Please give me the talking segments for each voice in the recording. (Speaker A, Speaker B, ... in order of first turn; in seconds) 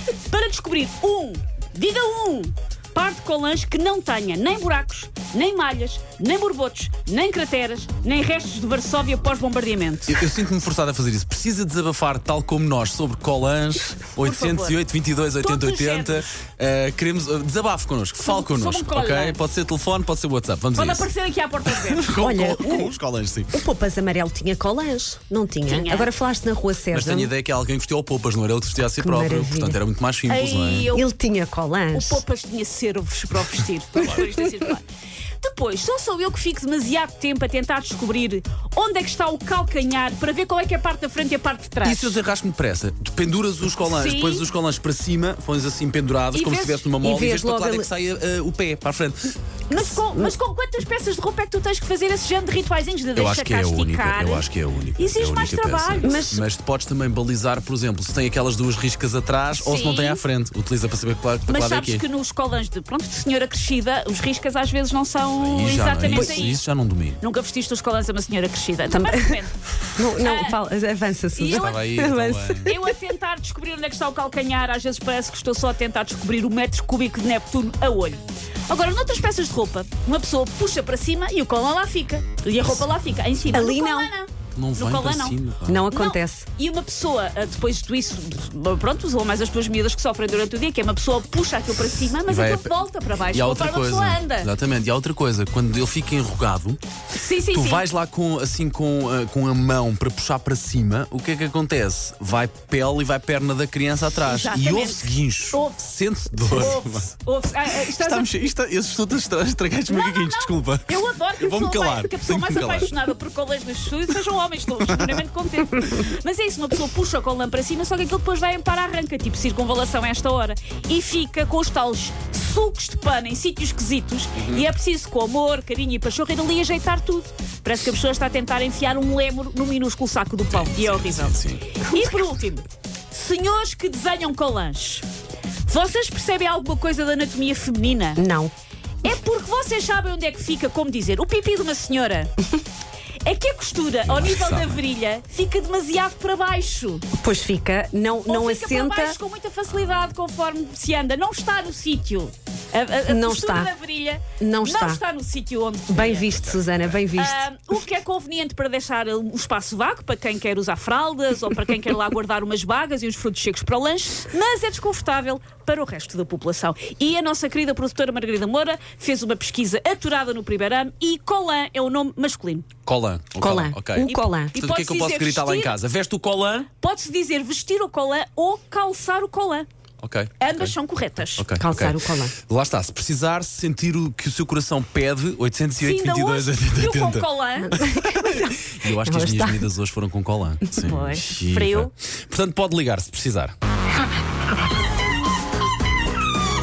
Speaker A: 0.2-10.2, 14.2-14.8, 15.4-16.3, 18.2-19.4, 20.8-22.1, 25.7-26.1, 30.3-31.1, 31.9-34.9, 35.4-42.2, 43.8-44.5, 46.3-46.9, 49.7-56.3, 59.5-60.2, 61.5-66.6, 67.2-69.5, 70.2-70.6, 71.3-71.8, 72.7-85.4, 85.9-94.5, 97.2-97.8, 104.2-105.9, 106.4-108.3, 109.9-135.1, 135.7-138.2, 139.0-142.3, 143.2-147.1, 148.3-156.5, 157.1-172.7, 174.0-175.7, 176.8-179.7, 180.4-181.5, 185.8-187.8, 190.8-191.9
Speaker B: 10.1-21.1, 21.7-23.6, 26.9-30.9, 41.8-49.4, 53.1-62.0, 65.4-67.2, 71.5-72.7, 84.5-85.9, 92.3-92.8, 93.3-96.8, 97.4-107.1, 107.8-112.9, 124.3-124.7, 130.5-131.8, 144.1-144.8, 156.2-157.0, 172.8-176.7, 180.0-180.7, 181.4-193.6
Speaker C: 22.1-22.9, 23.5-27.3, 29.0-29.8, 30.9-32.2, 47.0-47.9, 50.0-50.3, 56.0-56.4, 66.1-66.5, 68.9-69.4, 70.0-72.9, 83.5-84.1, 85.7-86.5, 131.9-132.2, 138.2-138.5, 147.1-149.2, 153.1-153.7, 154.4-155.0, 155.9-157.4, 173.4-174.6, 181.6-182.3, 187.7-189.7